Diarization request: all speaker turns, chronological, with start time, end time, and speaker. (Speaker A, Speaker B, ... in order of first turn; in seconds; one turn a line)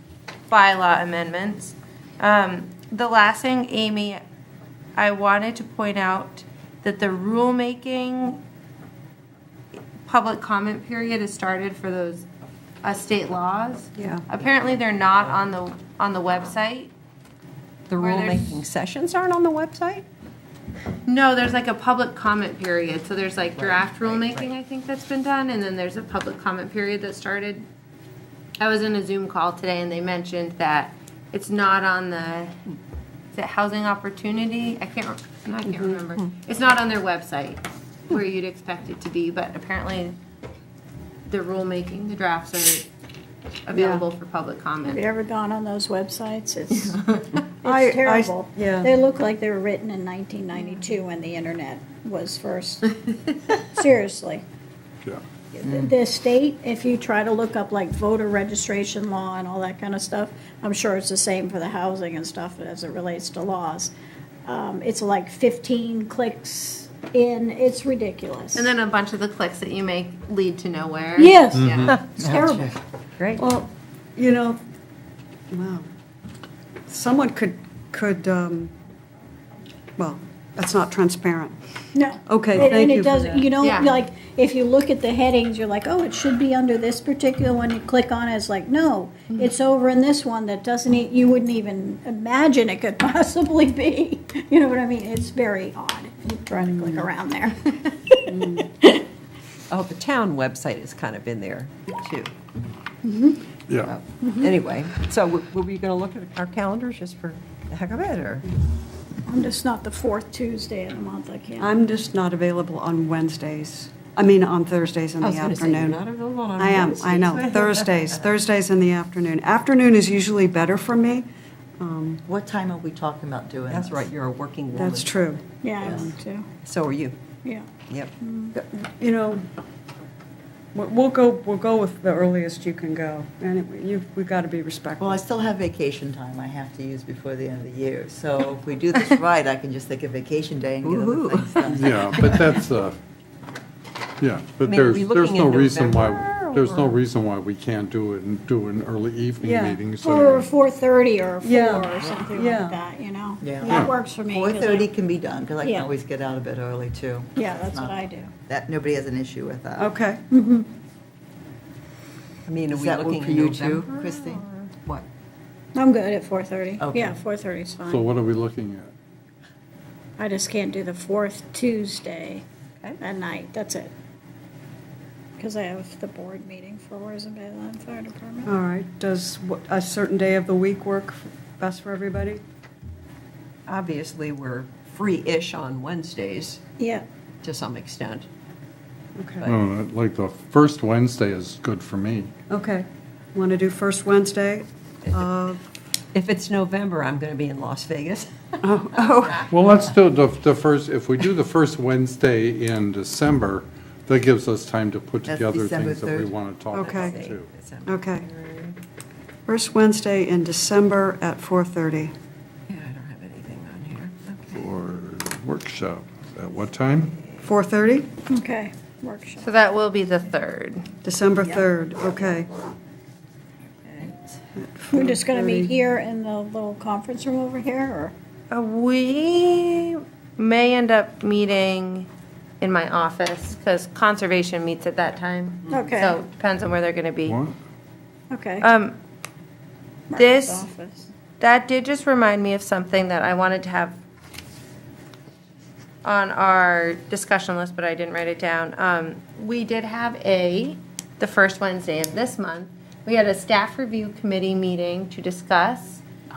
Speaker A: 0.5-4.2
Speaker A: 5.0-8.4
Speaker A: 10.1-12.2
Speaker A: 12.8-16.9
Speaker B: 13.9-14.2
Speaker C: 17.9-20.0
Speaker A: 18.0-18.5
Speaker A: 21.1-27.6
Speaker C: 23.6-24.5
Speaker A: 28.6-32.6
Speaker A: 33.3-40.1
Speaker A: 41.2-42.9
Speaker A: 43.6-45.1
Speaker B: 43.7-44.0
Speaker D: 44.9-47.0
Speaker D: 47.6-52.9
Speaker B: 47.6-48.9
Speaker D: 53.7-54.4
Speaker D: 55.5-63.9
Speaker E: 55.6-55.9
Speaker D: 64.4-68.7
Speaker A: 68.5-72.0
Speaker D: 71.2-71.7
Speaker F: 71.5-71.9
Speaker E: 72.1-72.8
Speaker C: 73.2-73.4
Speaker B: 73.4-74.6
Speaker B: 75.5-75.9
Speaker B: 76.9-78.7
Speaker B: 80.0-81.6
Speaker D: 81.9-97.6
Speaker B: 82.2-83.5
Speaker A: 83.6-84.0
Speaker B: 98.3-98.6
Speaker C: 99.7-102.3
Speaker D: 103.0-103.3
Speaker F: 103.7-103.9
Speaker C: 103.8-108.5
Speaker D: 109.3-111.7
Speaker B: 111.6-116.0
Speaker C: 115.2-118.3
Speaker B: 116.6-121.3
Speaker B: 121.8-122.2
Speaker E: 122.2-124.1
Speaker C: 123.7-125.2
Speaker B: 124.7-126.1
Speaker D: 125.6-126.5
Speaker C: 126.6-127.2
Speaker D: 127.4-127.7
Speaker D: 128.2-128.5
Speaker B: 128.5-129.4
Speaker B: 130.7-135.2
Speaker E: 135.0-142.1
Speaker C: 140.8-142.6
Speaker F: 141.7-143.0
Speaker F: 144.2-150.5
Speaker C: 144.6-147.0
Speaker B: 149.4-149.8
Speaker D: 150.0-154.9
Speaker B: 151.4-152.8
Speaker E: 153.4-159.9
Speaker F: 153.6-153.9
Speaker D: 155.6-155.9
Speaker D: 157.3-158.3
Speaker B: 159.8-160.2
Speaker D: 160.3-160.7
Speaker C: 162.5-165.1
Speaker E: 162.7-164.4
Speaker D: 165.7-168.1
Speaker E: 166.8-167.2
Speaker F: 167.8-168.9
Speaker D: 170.2-172.4
Speaker D: 173.0-173.9
Speaker D: 175.4-178.5
Speaker B: 178.4-182.4
Speaker C: 183.7-186.6
Speaker D: 186.8-187.0
Speaker C: 187.4-188.2
Speaker B: 189.2-189.5
Speaker F: 189.4-192.3
Speaker B: 192.5-195.6
Speaker C: 196.1-198.5
Speaker B: 198.6-199.4
Speaker F: 199.5-207.5
Speaker E: 205.2-206.3
Speaker B: 206.7-207.2
Speaker C: 206.7-208.8
Speaker B: 207.8-208.2
Speaker B: 209.5-212.1
Speaker C: 212.7-214.7
Speaker F: 214.5-217.1
Speaker B: 217.4-218.1
Speaker D: 218.3-219.4
Speaker A: 219.4-220.8
Speaker B: 221.0-222.5
Speaker C: 223.8-224.1
Speaker B: 224.7-225.7
Speaker D: 224.9-228.1
Speaker A: 228.5-232.1
Speaker A: 232.6-237.4
Speaker D: 235.7-236.1
Speaker F: 237.2-237.5
Speaker D: 238.3-238.6
Speaker A: 238.6-239.0
Speaker D: 240.1-241.1
Speaker A: 240.2-240.6
Speaker A: 241.4-244.0
Speaker A: 246.0-256.0